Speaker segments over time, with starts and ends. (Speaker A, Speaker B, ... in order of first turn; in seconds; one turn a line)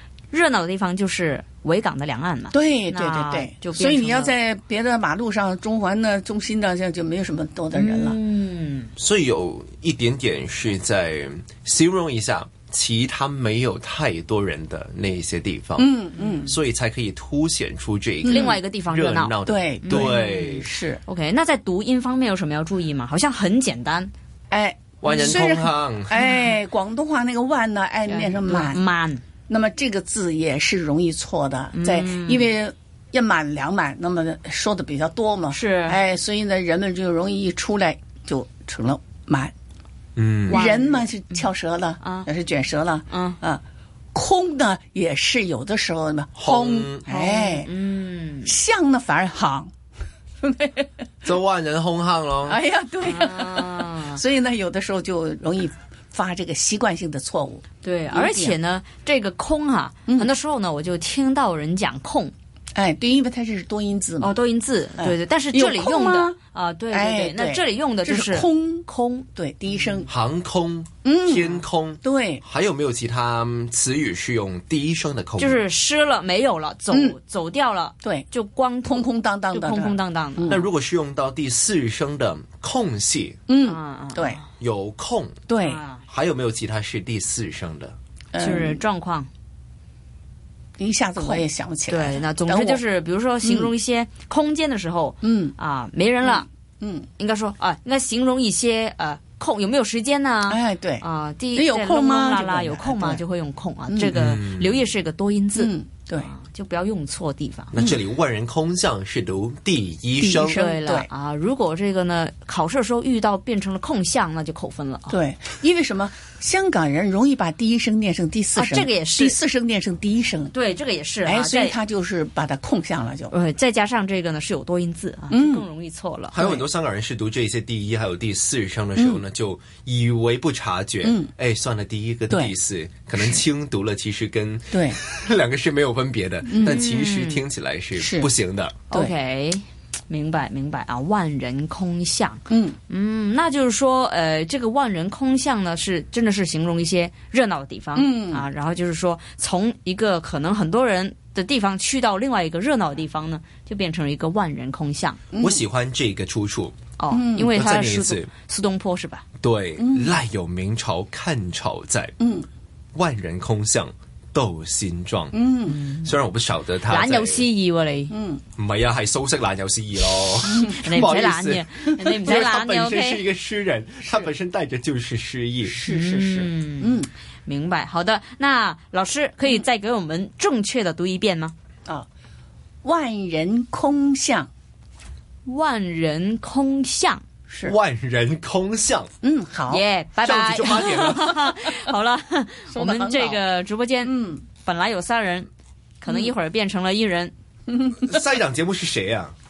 Speaker A: 0.3-4.3
Speaker B: 2.5-8.2
Speaker A: 7.7-8.9
Speaker C: 9.0-20.7
Speaker B: 15.8-16.6
Speaker B: 18.2-18.6
Speaker A: 18.3-20.3
Speaker B: 19.5-21.0
Speaker A: 21.1-24.1
Speaker B: 24.5-28.8
Speaker C: 25.0-26.1
Speaker A: 26.2-26.5
Speaker A: 28.1-29.2
Speaker B: 29.5-39.5
Speaker A: 31.7-32.5
Speaker A: 35.5-36.0
Speaker C: 40.2-40.6
Speaker A: 40.5-41.1
Speaker B: 40.5-43.6
Speaker A: 42.0-42.3
Speaker A: 43.1-43.4
Speaker B: 44.1-47.7
Speaker C: 46.4-47.1
Speaker A: 47.1-48.5
Speaker B: 48.4-49.7
Speaker B: 50.4-50.9
Speaker C: 51.2-52.6
Speaker B: 52.5-58.6
Speaker A: 53.0-54.2
Speaker A: 57.8-62.3
Speaker B: 60.1-60.3
Speaker B: 62.8-64.4
Speaker A: 64.2-70.0
Speaker B: 65.0-66.4
Speaker B: 66.9-70.1
Speaker C: 70.1-75.6
Speaker B: 71.0-72.4
Speaker A: 75.4-80.6
Speaker B: 76.9-77.2
Speaker B: 78.0-78.3
Speaker B: 78.9-80.6
Speaker C: 80.5-83.4
Speaker B: 83.5-84.4
Speaker A: 83.6-84.4
Speaker C: 84.6-85.4
Speaker B: 85.5-85.8
Speaker A: 85.6-86.0
Speaker C: 86.1-88.0
Speaker B: 88.3-88.8
Speaker A: 88.4-89.3
Speaker B: 90.8-92.8
Speaker A: 91.2-96.5
Speaker B: 93.4-93.7
Speaker B: 95.2-95.5
Speaker B: 96.2-97.1
Speaker A: 97.2-107.7
Speaker B: 100.5-103.2
Speaker B: 103.9-104.2
Speaker C: 104.1-104.9
Speaker B: 105.5-106.3
Speaker C: 107.7-110.6
Speaker B: 110.2-111.1
Speaker A: 110.5-115.2
Speaker B: 115.1-120.5
Speaker A: 118.5-119.4
Speaker A: 120.5-121.8
Speaker B: 121.2-123.3
Speaker A: 123.3-126.3
Speaker B: 125.3-125.7
Speaker C: 126.3-138.8
Speaker B: 126.4-126.7
Speaker B: 131.0-131.3
Speaker B: 133.2-133.4
Speaker B: 134.7-135.0
Speaker B: 136.5-136.8
Speaker A: 136.6-137.4
Speaker B: 138.0-138.3
Speaker A: 138.9-155.2
Speaker B: 142.5-142.8
Speaker B: 147.9-148.5
Speaker B: 155.3-155.6
Speaker C: 155.4-156.7
Speaker A: 157.0-159.2
Speaker B: 157.1-157.6
Speaker C: 157.5-158.3
Speaker C: 159.4-162.1
Speaker B: 159.8-160.2
Speaker B: 162.2-162.5
Speaker C: 162.9-165.4
Speaker B: 165.3-165.8
Speaker A: 165.7-166.1
Speaker C: 165.9-167.5
Speaker A: 166.9-168.1
Speaker B: 168.1-168.4
Speaker C: 168.6-175.8
Speaker B: 170.5-170.9
Speaker A: 170.7-173.2
Speaker B: 175.6-177.1
Speaker A: 175.8-181.5
Speaker B: 182.8-184.5
Speaker A: 185.5-187.2
Speaker B: 187.5-187.8
Speaker C: 187.7-189.1
Speaker B: 189.2-189.9
Speaker A: 189.7-195.5
Speaker C: 190.2-191.5
Speaker B: 192.7-193.4
Speaker B: 194.0-194.4
Speaker A: 196.0-197.3
Speaker B: 196.1-196.3
Speaker B: 197.7-198.2
Speaker C: 198.0-199.3